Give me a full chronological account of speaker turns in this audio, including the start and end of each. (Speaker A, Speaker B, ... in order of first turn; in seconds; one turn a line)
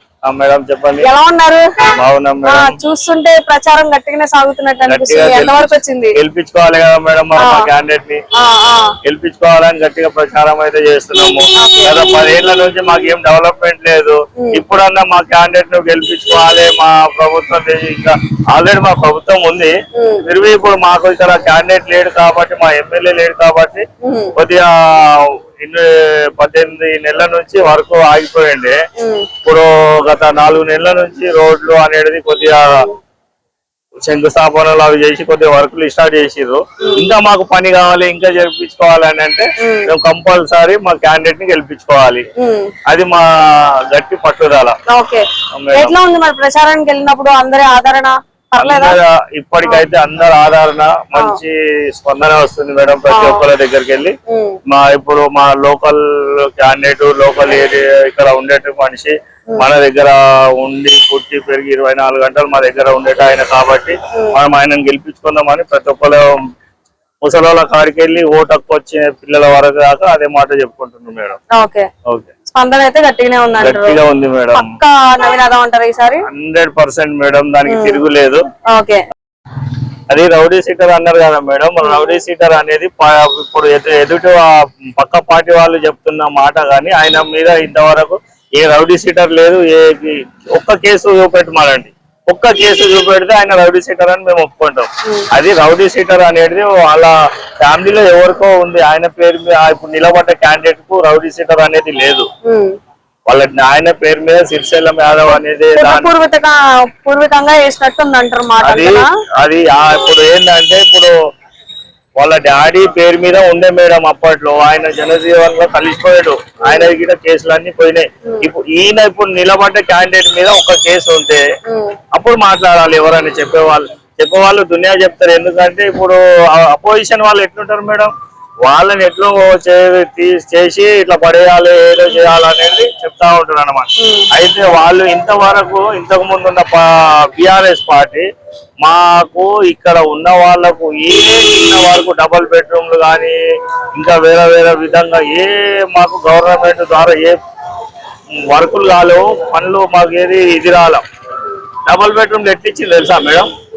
Speaker A: 0.2-1.1
Speaker B: 1.0-1.6
Speaker A: 1.9-2.8
Speaker B: 2.5-6.2
Speaker A: 4.9-8.2
Speaker B: 7.4-7.7
Speaker B: 8.3-8.9
Speaker A: 9.0-23.8
Speaker B: 11.6-12.0
Speaker B: 19.9-20.2
Speaker B: 24.0-24.3
Speaker A: 24.4-28.8
Speaker B: 29.0-29.3
Speaker A: 29.4-32.8
Speaker A: 34.0-42.2
Speaker B: 39.6-39.9
Speaker B: 42.4-42.7
Speaker A: 42.9-43.2
Speaker A: 43.9-44.8
Speaker B: 44.9-49.0
Speaker A: 45.5-45.9
Speaker A: 48.6-54.1
Speaker B: 51.1-51.4
Speaker B: 53.1-53.5
Speaker B: 54.3-54.6
Speaker A: 54.7-66.3
Speaker A: 67.2-71.4
Speaker B: 71.5-71.9
Speaker A: 72.0-72.3
Speaker B: 72.5-74.0
Speaker A: 73.6-74.7
Speaker B: 74.5-76.2
Speaker A: 76.3-78.4
Speaker B: 77.7-78.0
Speaker B: 78.7-79.0
Speaker A: 80.1-102.3
Speaker B: 81.8-82.2
Speaker B: 102.5-102.7
Speaker A: 103.3-106.1
Speaker B: 105.3-109.1
Speaker A: 108.6-111.1
Speaker A: 112.2-121.4
Speaker B: 121.7-122.0
Speaker A: 122.1-128.1
Speaker A: 128.7-138.2
Speaker B: 134.0-134.3
Speaker A: 138.8-143.4
Speaker A: 143.9-147.4
Speaker A: 148.4-151.0
Speaker A: 151.9-153.5